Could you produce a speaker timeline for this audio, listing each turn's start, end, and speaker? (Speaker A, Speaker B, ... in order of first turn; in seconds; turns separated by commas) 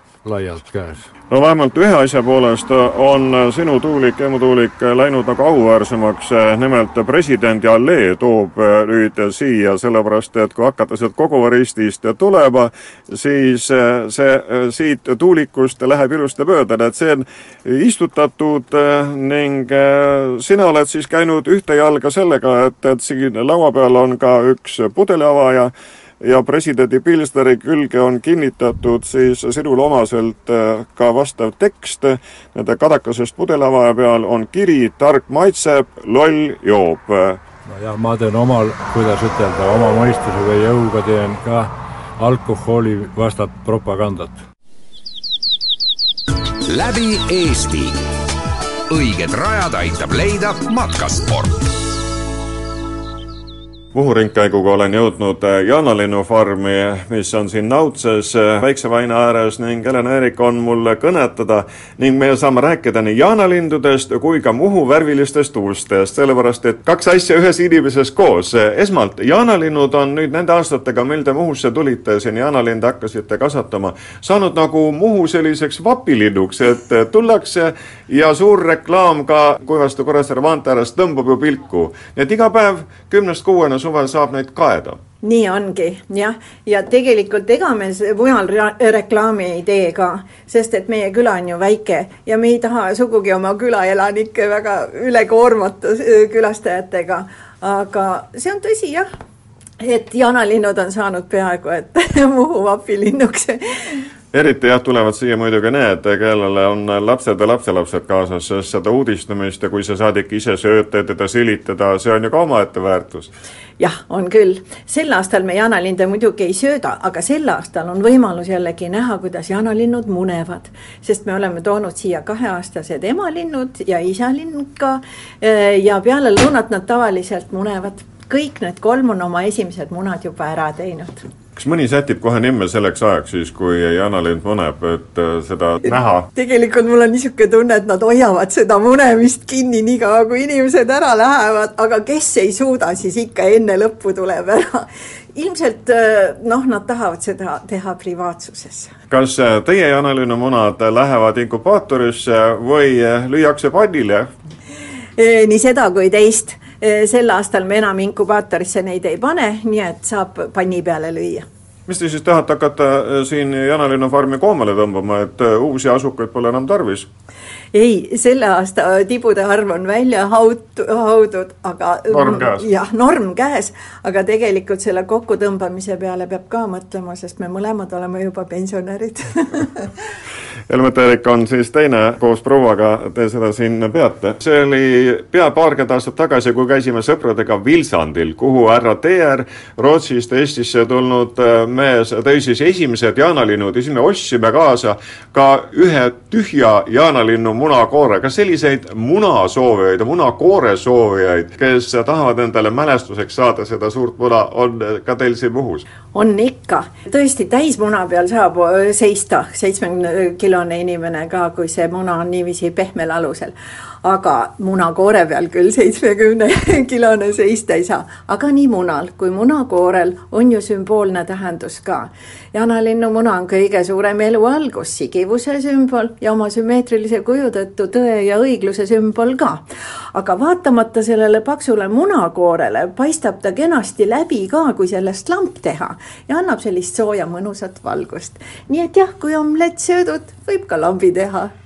Speaker A: 0.2-1.1, Speaker B: 1.3-37.4, Speaker A: 37.6-44.4, Speaker C: 46.6-48.0, Speaker C: 48.9-51.6, Speaker B: 53.9-85.0, Speaker D: 85.2-99.1, Speaker D: 99.8-104.0, Speaker B: 104.3-113.3, Speaker D: 113.8-131.2, Speaker B: 131.6-136.3, Speaker D: 135.9-148.9, Speaker B: 149.1-154.3, Speaker D: 155.2-161.4, Speaker B: 161.9-167.1, Speaker D: 167.7-179.9, Speaker B: 172.1-172.7, Speaker B: 180.7-205.8, Speaker D: 206.1-229.6, Speaker D: 230.1-241.5